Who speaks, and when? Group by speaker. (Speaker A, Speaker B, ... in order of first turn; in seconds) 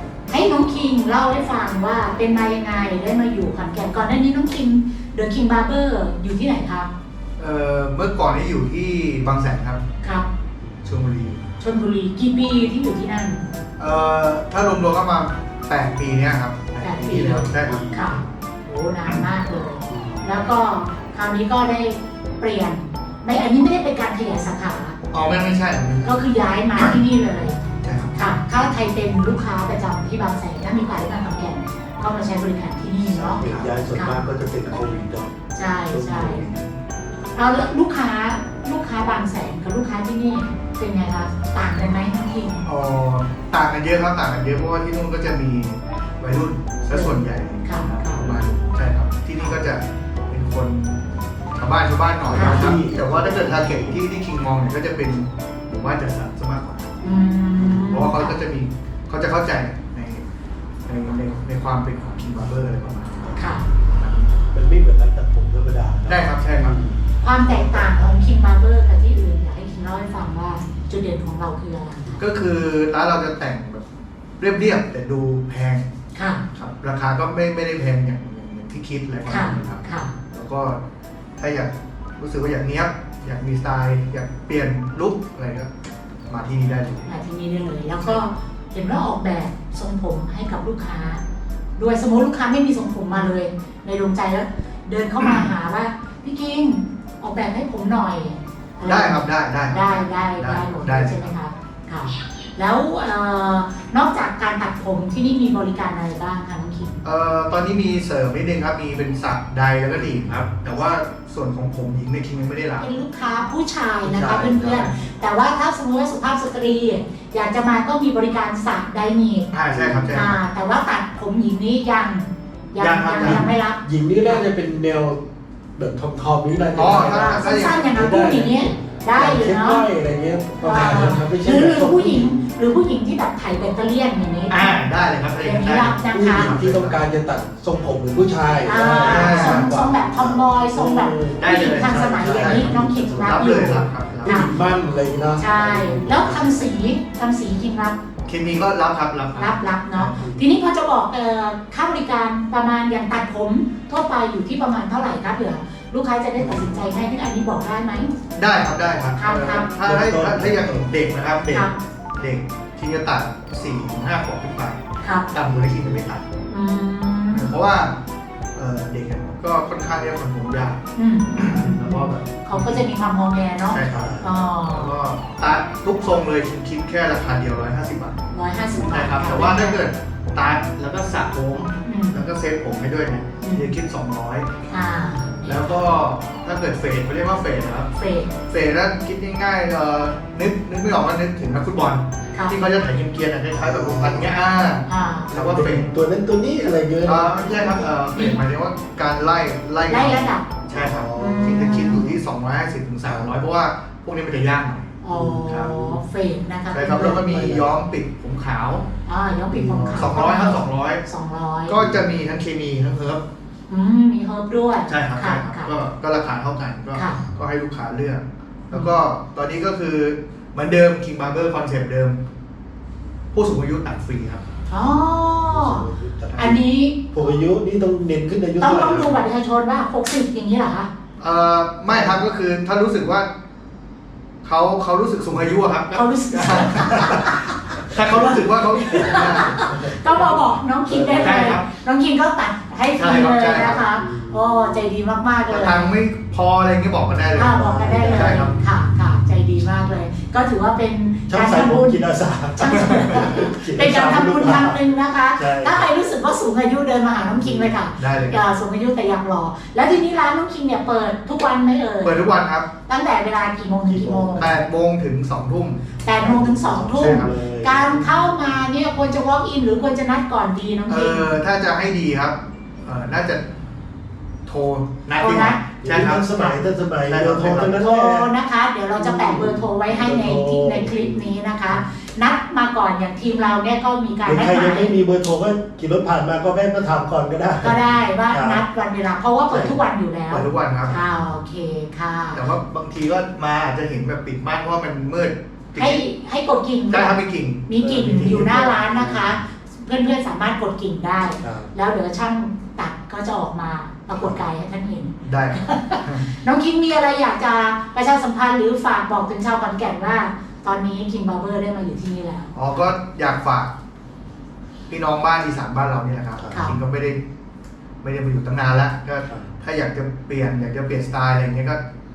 Speaker A: 0.3-6.9, 10.0-10.3, 11.6-13.5, 16.8-25.0, 26.0-27.6, 28.1-34.2, 35.5-36.5, 37.4-42.6, 46.9-48.2, 52.3-52.7, 57.0-58.4, 63.4-63.6, 67.2-72.1, 76.1-76.4, 79.3-80.1, 87.0-91.2, 91.8-107.0, 112.8-119.5, 120.1-124.4, 127.0-129.9, 130.6-134.9, 135.4-136.5, 138.7-144.5, 145.4-148.0, 149.4-158.2, 159.2-159.7, 161.5-161.8, 165.0-165.3, 166.5-167.5, 171.0-174.9, 178.3-179.8, 181.8-182.2, 183.4-183.7, 184.7-185.7, 187.9-188.3, 194.9-195.3, 197.4-198.4, 199.9-200.5, 201.2-202.1, 205.0-207.2, 209.1-211.8, 213.7-215.8, 216.9-217.2, 224.7-227.1, 228.6-230.9, 235.9-245.9, 247.3-262.2, 262.9-264.5, 266.0-271.3, 275.2-275.6, 277.8-284.9, 287.6-292.4, 295.8-312.5, 316.5-316.8
Speaker B: 7.4-9.8, 10.8-11.4, 13.8-17.8, 25.1-26.1, 27.8-28.2, 33.4-33.7, 42.6-51.0, 51.5-56.9, 57.6-60.2, 60.9-64.3, 66.1-66.8, 72.2-73.8, 74.4-75.9, 76.5-80.8, 81.4-85.7, 86.3-87.1, 95.2-95.5, 98.8-101.3, 107.0-112.9, 119.5-120.4, 122.8-123.5, 126.7-127.8, 130.8-131.2, 134.5-137.0, 138.9-139.7, 141.4-144.4, 148.3-150.2, 158.3-166.3, 167.3-168.0, 168.6-170.8, 171.3-172.8, 173.7-184.6, 185.4-187.9, 188.5-195.9, 197.1-205.7, 206.7-208.8, 209.9-211.0, 211.7-213.2, 214.9-222.2, 223.3-224.4, 226.3-226.6, 231.2-233.3, 234.4-239.6, 241.2-241.7, 243.0-243.8, 245.5-247.6, 248.1-248.6, 258.0-258.4, 262.0-262.7, 264.4-265.9, 267.0-267.3, 270.9-273.4, 274.5-276.5, 277.1-277.8, 290.3-291.0, 292.3-296.0, 296.9-298.7, 305.2-306.3, 312.5-313.7, 314.9-317.2, 318.0-321.8
Speaker C: 17.5-18.1, 19.9-20.2, 33.0-35.3, 35.9-36.5, 52.3-53.9, 64.5-68.1, 114.0-114.9, 119.7-120.2, 123.2-125.2, 125.8-132.4, 136.1-143.7, 144.2-146.7, 159.7-160.9, 165.5-166.0, 173.8-174.3, 193.5-194.3, 195.3-197.4, 200.7-201.6, 203.0-203.3, 205.1-206.0, 206.9-207.7, 209.5-210.1, 225.2-226.6, 227.1-229.2, 231.9-232.2, 239.0-241.6, 243.8-244.9, 247.4-248.5, 251.3-254.8, 255.4-255.9, 257.2-257.8, 263.9-264.6, 266.2-268.1, 275.8-278.3, 279.0-281.8, 284.2-288.6, 289.5-289.8, 297.8-299.4, 301.4-301.7, 304.1-304.4, 316.4-316.7, 319.3-319.5